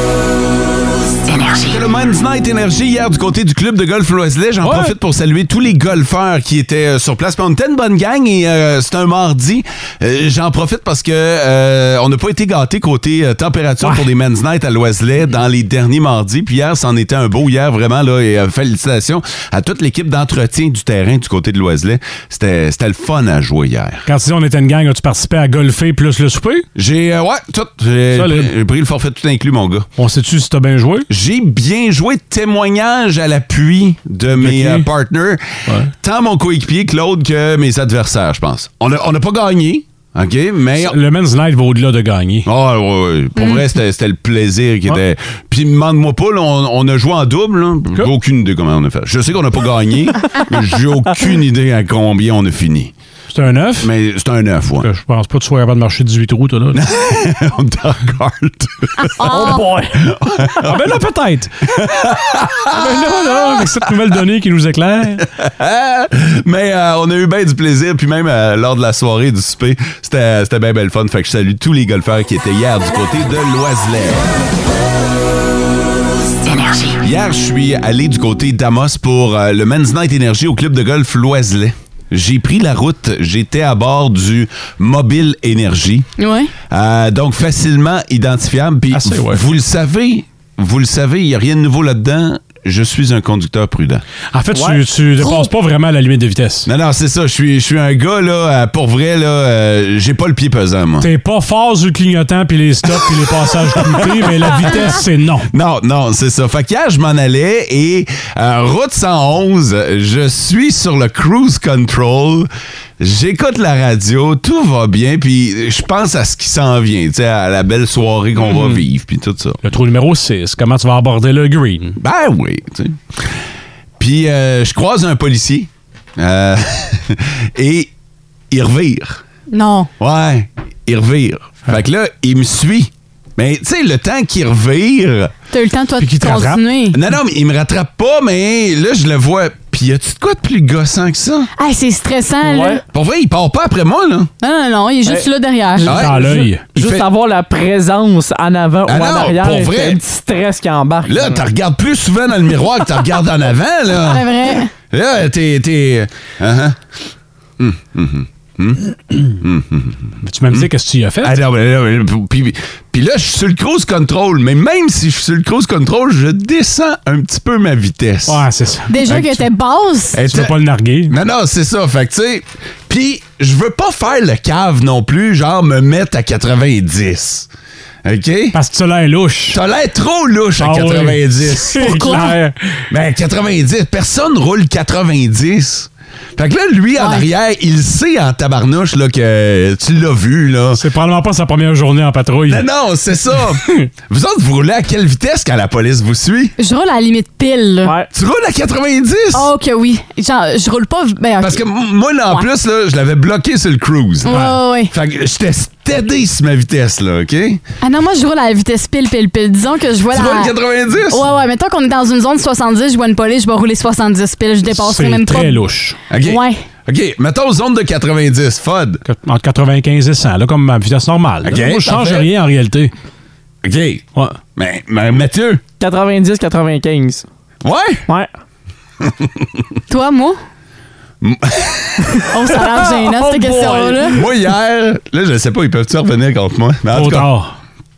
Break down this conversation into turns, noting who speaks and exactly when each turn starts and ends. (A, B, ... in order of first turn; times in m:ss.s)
0:01.6-0:24.0 A
0:04.6-0:04.9 B
0:24.0-0:26.7 B
0:26.8-0:29.9 A
0:28.1-0:28.5 B
0:30.0-0:31.1 B
0:31.1-0:35.4 A
0:34.4-0:34.9 B
0:35.7-0:35.9 B
0:36.0-0:41.0 A
0:40.8-0:42.5 B
0:42.4-0:52.9 A
0:53.3-0:53.9 B
0:53.8-0:54.9 A
0:54.8-0:56.8 B
0:56.7-1:01.0 A
0:59.2-0:59.7 C
0:59.3-1:00.0 D
1:00.6-1:01.9 B
1:01.7-1:03.9 A
1:02.6-1:05.3 B
1:05.4-1:14.3 A
1:17.0-1:26.1 A
1:26.2-1:26.5 C
1:26.7-1:34.0 A
1:28.9-1:29.4 B
1:34.3-1:36.7 B
1:34.5-1:34.8 D
1:36.6-1:41.1 A
1:41.0-1:45.5 B
1:43.0-1:43.2 A
1:43.7-1:44.9 A
1:45.5-1:52.5 A
1:53.0-1:59.6 A
1:58.4-1:58.8 B
1:59.6-2:02.0 B
2:02.0-2:03.3 A
2:04.0-2:07.9 A
2:08.5-2:09.2 A
2:09.5-2:09.9 C
2:10.0-2:15.3 A
2:15.5-2:17.0 C
2:16.0-2:16.6 B
2:16.9-2:21.5 A
2:21.6-2:22.8 C
2:22.4-2:22.8 D
2:22.9-2:24.3 A
2:24.4-2:25.8 C
2:25.0-2:31.4 D
2:25.8-2:27.1 A
2:25.9-2:26.6 B
2:28.8-2:30.0 A
2:31.0-2:34.3 A
2:34.0-2:34.7 C
2:34.9-2:36.8 A
2:37.6-2:40.7 A
2:40.2-2:41.4 B
2:41.2-2:48.4 A
2:48.3-2:49.4 B
2:48.9-2:50.2 C
2:50.1-2:50.5 A
2:50.2-2:51.1 B
2:51.1-2:57.5 A
2:58.0-2:58.6 A
2:58.5-2:59.6 B
2:59.5-3:02.3 A
3:00.6-3:02.8 B
3:01.7-3:02.3 C
3:02.9-3:10.8 A
3:07.0-3:07.2 C
3:10.7-3:12.7 B
3:12.5-3:16.5 A
3:13.5-3:13.8 B
3:16.6-3:17.9 C
3:17.8-3:18.1 D
3:18.1-3:19.5 A
3:19.3-3:21.6 C
3:21.4-3:24.4 A
3:24.2-3:24.9 C
3:24.3-3:24.6 B
3:24.9-3:27.6 A
3:27.8-3:30.5 C
3:30.1-3:31.2 A
3:31.0-3:35.6 C
3:34.7-3:36.0 B
3:36.1-3:39.0 A
3:36.2-3:36.6 C
3:39.0-3:42.9 B
3:41.4-3:42.3 A
3:43.6-3:44.0 A
3:44.6-3:45.6 A
3:45.8-3:47.2 D
3:47.6-3:48.1 A
3:49.0-3:49.6 A
3:49.9-3:50.4 C
3:51.2-3:52.3 A
3:52.3-3:54.2 C
3:52.9-3:54.2 D
3:54.1-3:57.3 A
3:56.9-3:57.5 B